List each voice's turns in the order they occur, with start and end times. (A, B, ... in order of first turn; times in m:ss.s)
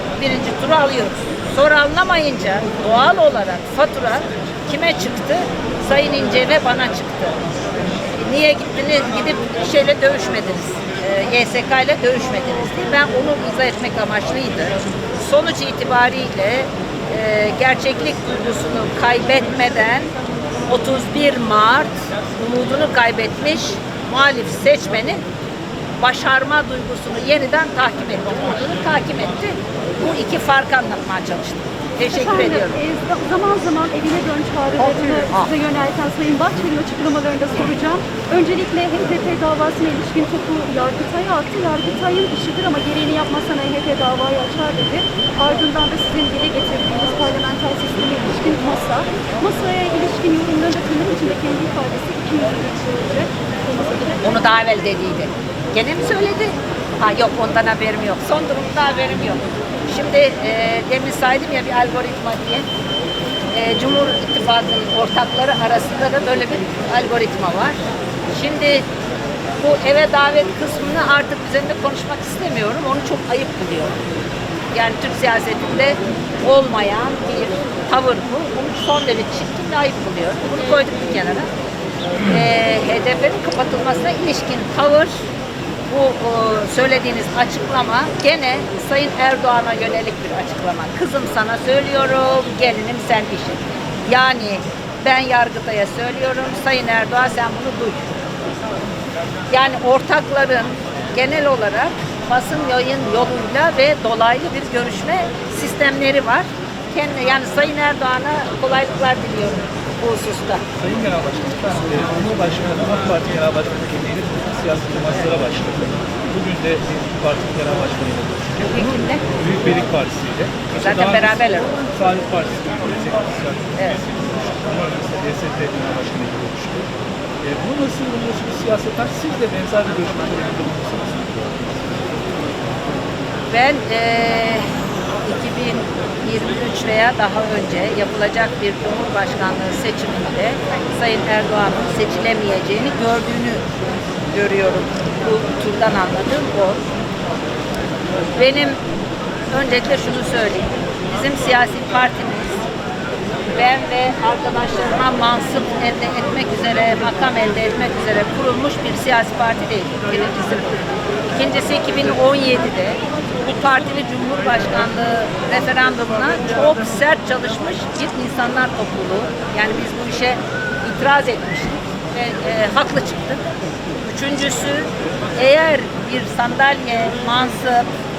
0:00.2-0:07.4 A
0:08.2-0:20.1 A
0:20.7-0:25.2 A
0:26.0-0:32.8 A
0:32.1-0:54.2 B
0:54.2-1:02.7 A
1:03.5-1:07.8 A
1:08.3-1:08.8 A
1:09.6-1:14.0 A
1:14.7-1:21.5 A
1:22.2-1:25.1 A
1:25.9-1:38.2 A
1:39.5-1:50.6 A
1:50.8-2:01.3 C
1:58.7-1:59.2 A
2:00.7-2:01.8 A
2:01.9-2:06.9 C
2:03.8-2:04.0 A
2:07.4-2:12.0 C
2:13.5-2:14.7 A
2:15.2-2:23.6 A
2:24.3-2:26.8 A
2:28.3-2:28.8 A
2:29.5-2:32.6 A
2:33.5-2:53.5 A
2:54.0-2:57.9 A